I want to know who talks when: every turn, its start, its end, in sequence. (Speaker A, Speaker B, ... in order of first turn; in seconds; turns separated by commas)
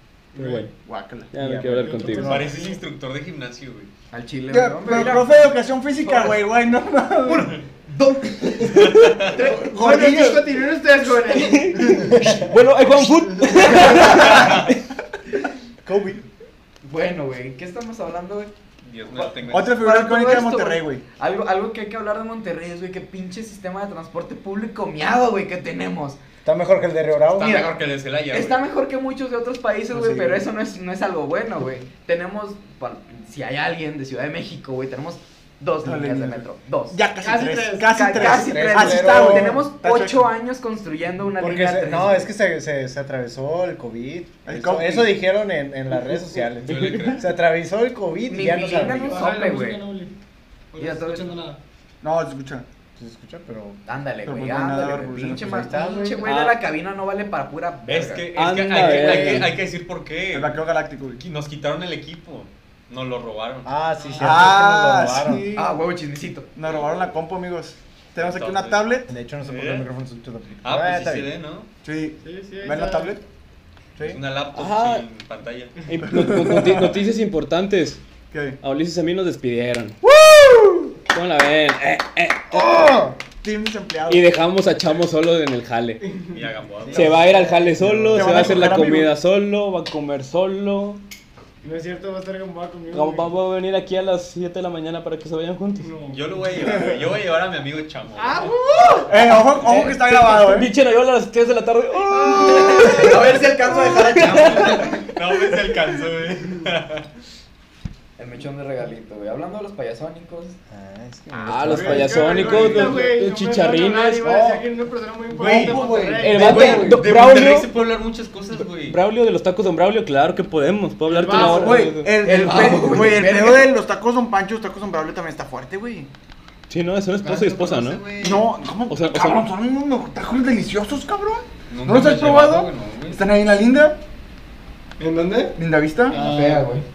Speaker A: 0.3-0.7, Speaker B: 0.8-1.3, Speaker A: 1.3-2.4, Speaker C: 1.4-2.7, Speaker D: 1.9-2.7, Speaker E: 2.2-3.9, Speaker F: 4.1-5.4, Speaker B: 4.5-7.6, Speaker F: 6.0-6.4, Speaker F: 7.2-10.0, Speaker A: 8.9-9.2, Speaker B: 9.3-10.4, Speaker D: 9.7-12.3, Speaker A: 11.3-14.7, Speaker C: 12.1-12.6, Speaker E: 14.0-14.7, Speaker C: 15.9-16.2, Speaker F: 16.8-18.5, Speaker E: 18.8-19.8, Speaker B: 19.5-21.0, Speaker F: 19.8-26.2, Speaker C: 26.4-27.6, Speaker E: 27.3-28.6, Speaker F: 27.4-27.8, Speaker F: 28.3-37.0, Speaker C: 29.9-30.4, Speaker B: 35.8-40.3, Speaker D: 37.2-38.0, Speaker F: 37.9-42.3, Speaker C: 38.1-39.6, Speaker C: 41.4-49.2, Speaker B: 44.5-45.1, Speaker E: 46.6-47.3, Speaker A: 46.8-47.1, Speaker F: 48.3-49.8, Speaker D: 48.9-50.1, Speaker D: 50.7-51.6, Speaker F: 50.8-51.3, Speaker B: 52.0-52.6, Speaker C: 53.0-53.8, Speaker F: 53.9-59.4, Speaker B: 54.3-55.7, Speaker C: 55.4-56.3, Speaker E: 57.9-60.6, Speaker A: 58.4-59.5, Speaker B: 60.3-61.2, Speaker E: 61.2-63.8, Speaker C: 63.6-65.5, Speaker D: 64.0-64.4, Speaker B: 64.2-65.7, Speaker F: 65.5-66.5, Speaker B: 66.6-69.1, Speaker E: 68.2-68.9, Speaker C: 69.1-71.3, Speaker E: 69.4-69.9, Speaker E: 70.6-71.7, Speaker B: 71.8-73.2, Speaker D: 72.2-73.2, Speaker E: 74.0-75.8, Speaker A: 74.5-75.0, Speaker A: 75.9-78.0, Speaker B: 76.1-76.9, Speaker B: 78.3-78.6, Speaker A: 78.6-80.0, Speaker B: 80.0-80.9, Speaker A: 81.1-82.9, Speaker C: 82.5-83.2, Speaker B: 83.4-84.3, Speaker A: 84.1-86.0, Speaker D: 86.0-86.3, Speaker E: 86.3-87.3, Speaker C: 86.8-88.7, Speaker A: 86.9-91.0, Speaker B: 88.1-89.1, Speaker D: 91.6-93.3, Speaker A: 92.9-95.9, Speaker D: 95.8-96.9, Speaker E: 96.1-98.5, Speaker D: 98.2-99.2, Speaker B: 99.1-100.7, Speaker A: 99.6-103.1, Speaker D: 102.2-103.0, Speaker F: 102.4-105.0, Speaker A: 103.9-104.8, Speaker E: 104.9-107.0, Speaker F: 108.2-110.6, Speaker C: 110.7-113.0, Speaker A: 111.3-114.3, Speaker D: 111.7-116.9, Speaker B: 112.4-113.0, Speaker C: 114.2-114.6, Speaker B: 115.3-116.4, Speaker A: 116.1-117.7, Speaker E: 116.3-119.0, Speaker F: 116.4-117.0, Speaker A: 118.6-122.1, Speaker D: 121.1-121.9, Speaker B: 121.3-126.1, Speaker F: 122.2-123.7, Speaker A: 126.7-128.1, Speaker E: 127.2-128.4, Speaker B: 128.2-134.0, Speaker A: 128.9-129.4, Speaker E: 131.7-133.2, Speaker D: 135.0-135.6, Speaker B: 135.6-136.2, Speaker D: 136.1-136.7, Speaker F: 136.1-136.8